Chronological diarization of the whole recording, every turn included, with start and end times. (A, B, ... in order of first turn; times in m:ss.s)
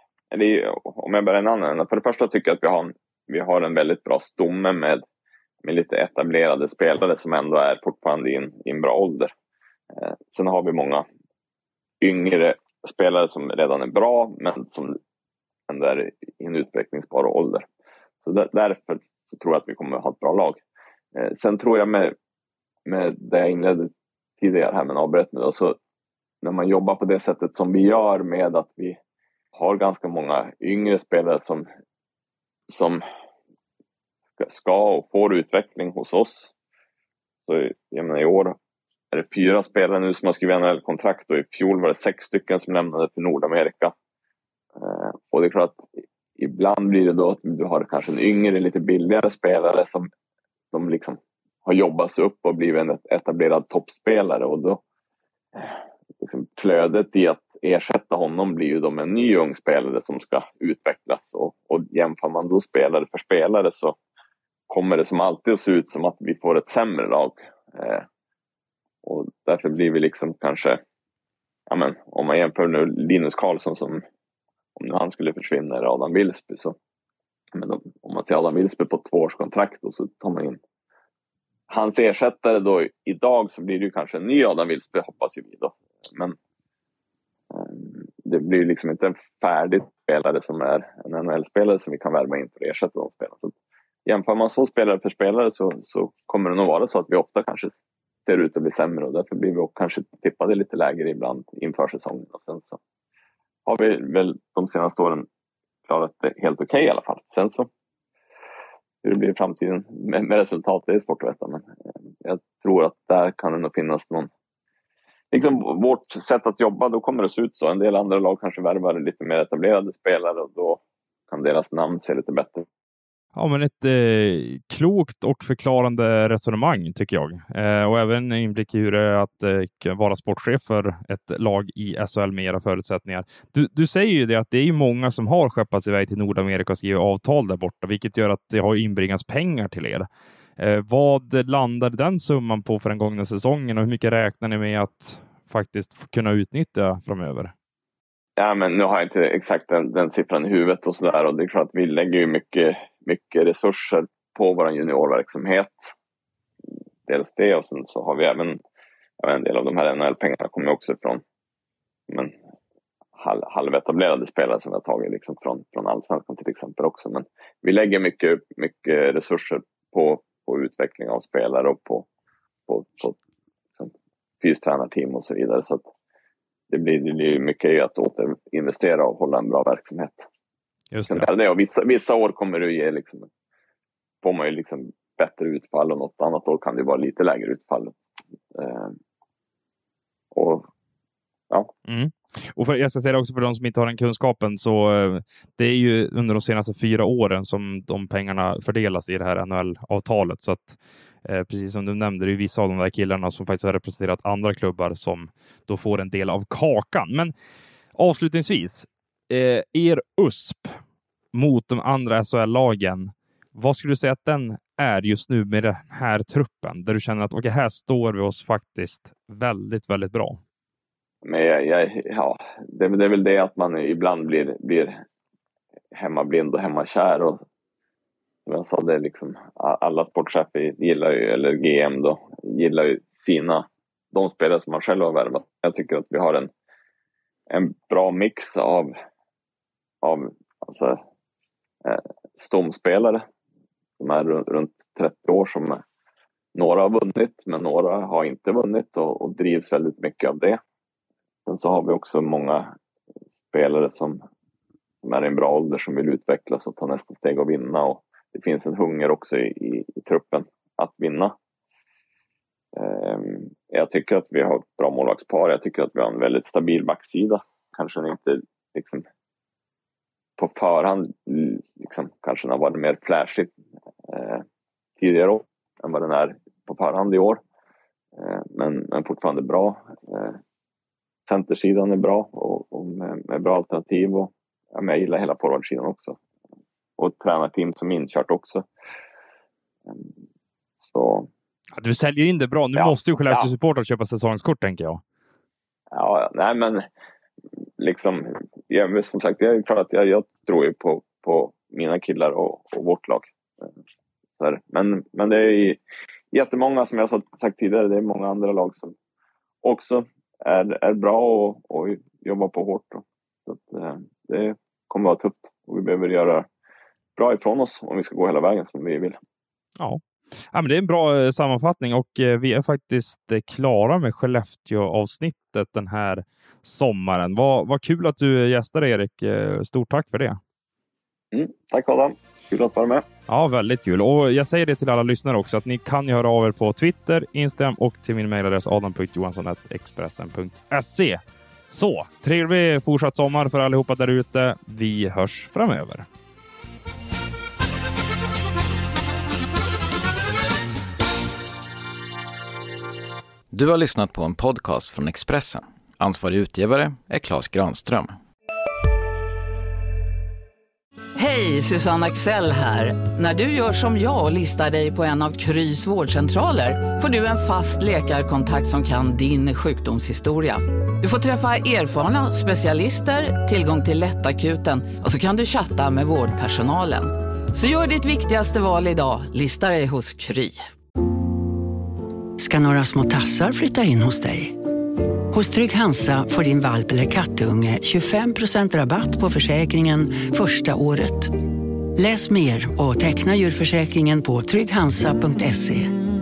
0:00.3-0:05.0 A
0:05.6-0:09.3 A
0:09.9-0:11.0 A
0:12.0-0:15.0 A
0:15.7-0:17.6 A
0:18.2-0:20.6 A
0:21.1-0:22.1 A
0:22.8-0:25.8 A
0:26.4-0:29.0 A
0:29.5-0:31.7 A
0:32.7-0:33.0 A
0:34.4-0:36.5 A
0:37.5-0:38.6 A
0:39.1-0:43.9 A
0:44.8-0:45.8 A
0:46.4-0:50.1 A
0:50.7-0:54.8 A
0:55.6-1:04.0 A
1:04.7-1:08.0 A
1:09.0-1:10.8 A
1:11.7-1:14.0 A
1:14.8-1:16.8 A
1:17.5-1:20.6 A
1:21.7-1:26.4 A
1:27.5-1:33.5 A
1:34.0-1:37.7 A
1:38.2-1:42.8 A
1:43.6-1:45.3 A
1:45.9-1:47.7 A
1:49.0-1:51.7 A
1:52.2-1:54.3 A
1:55.3-2:02.6 A
2:03.3-2:20.1 B
2:20.6-2:27.5 B
2:28.4-2:35.9 A
2:37.0-2:38.6 A
2:39.2-2:41.2 A
2:42.1-2:42.3 A
2:43.2-2:52.1 A
2:52.7-2:53.2 A
2:53.8-2:55.8 A
2:56.7-3:00.2 A
3:00.9-3:01.3 B
3:01.1-3:03.3 A
3:04.2-3:08.0 A
3:08.5-3:09.0 A
3:10.3-3:10.7 A
3:11.8-3:27.3 B
3:27.9-3:30.8 B
3:31.3-3:40.4 B
3:41.2-3:45.0 A
3:45.9-3:47.4 A
3:48.4-3:56.5 A
3:57.5-3:58.9 A
4:00.0-4:01.0 A
4:01.8-4:03.2 A
4:04.0-4:05.8 A
4:06.5-4:10.6 A
4:11.4-4:12.7 A
4:13.5-4:14.2 A
4:15.0-4:21.4 A
4:22.7-4:29.0 A
4:30.4-4:33.5 A
4:34.1-4:34.4 A
4:35.0-4:37.4 A
4:38.2-4:40.4 A
4:41.3-4:46.2 A
4:47.0-4:48.6 A
4:49.9-4:50.1 A
4:50.8-4:51.3 A
4:51.7-4:55.0 B
4:52.8-4:53.5 A
4:55.9-4:56.8 A
4:57.8-5:03.7 A
5:04.4-5:05.8 A
5:06.3-5:08.9 A
5:09.6-5:16.5 A
5:17.2-5:19.2 A
5:19.8-5:30.4 B
5:31.3-5:33.0 A
5:33.3-5:46.1 B
5:53.5-5:58.2 C
6:01.2-6:20.6 D
6:22.4-6:24.5 E
6:25.3-6:31.3 E
6:32.0-6:35.8 E